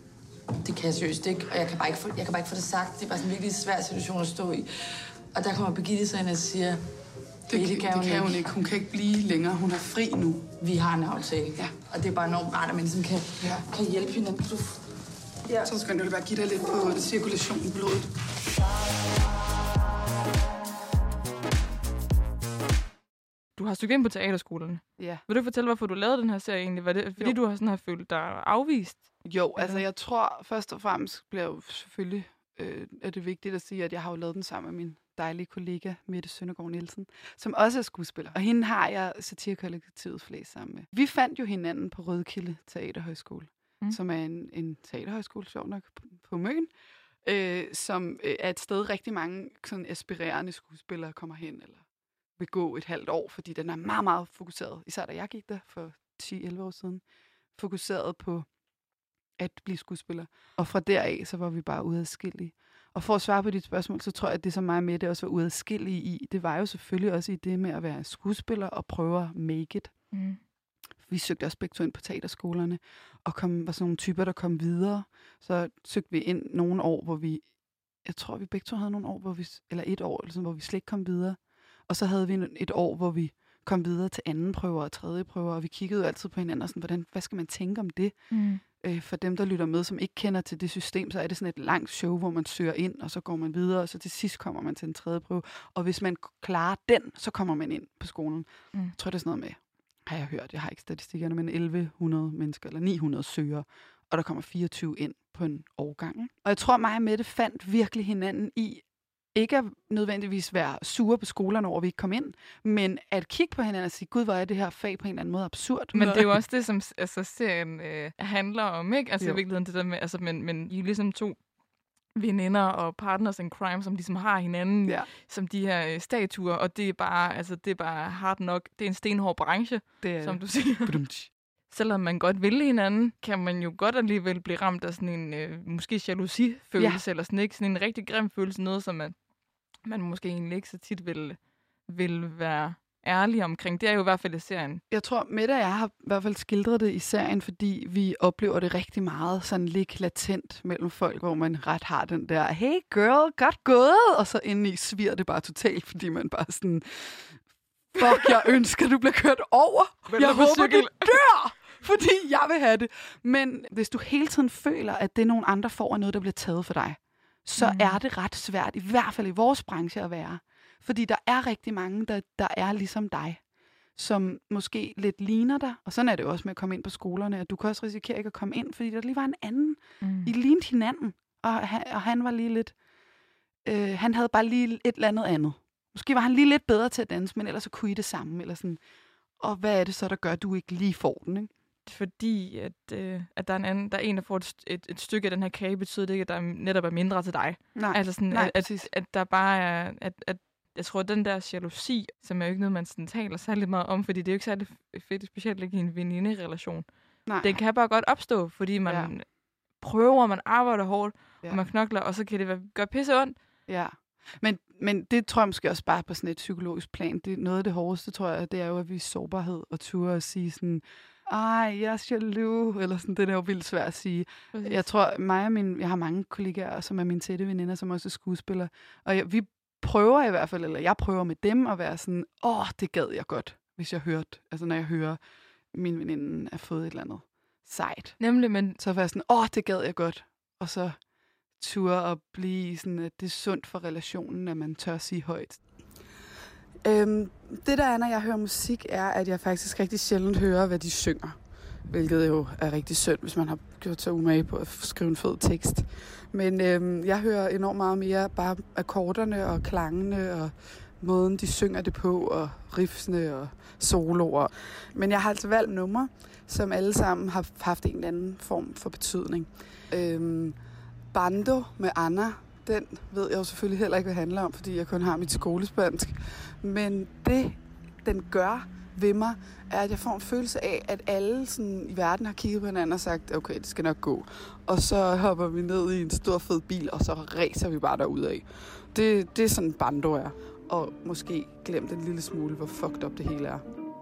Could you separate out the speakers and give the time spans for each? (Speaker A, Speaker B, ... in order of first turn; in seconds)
Speaker A: 0.6-4.7, 5.3-6.8, 7.5-8.6, 10.6-14.8, 15.5-15.7
Speaker B: 7.5-10.5, 13.4-13.7, 15.6-18.1, 25.0-25.2, 29.2-46.7, 47.2-51.9, 52.4-57.0, 57.5-58.5, 59.4-69.9, 71.1-77.5, 78.0-88.2, 88.7-116.4, 130.0-131.3, 136.8-137.0, 144.9-157.2, 157.9-173.4, 174.0-182.8, 183.7-188.8, 189.4-191.5, 197.8-198.9, 207.3-207.6, 208.9-209.1, 213.7-235.2, 235.7-238.2, 238.8-241.0, 241.6-245.6, 246.8-270.6, 271.1-293.6
Speaker C: 23.6-29.8, 70.1-70.4, 88.3-88.6, 115.9-121.4, 122.2-131.0, 131.7-139.2, 139.8-144.8, 160.1-161.2, 167.6-168.0, 180.0-180.3, 191.9-206.9, 207.4-209.2, 209.8-213.3, 224.5-224.8, 238.2-238.8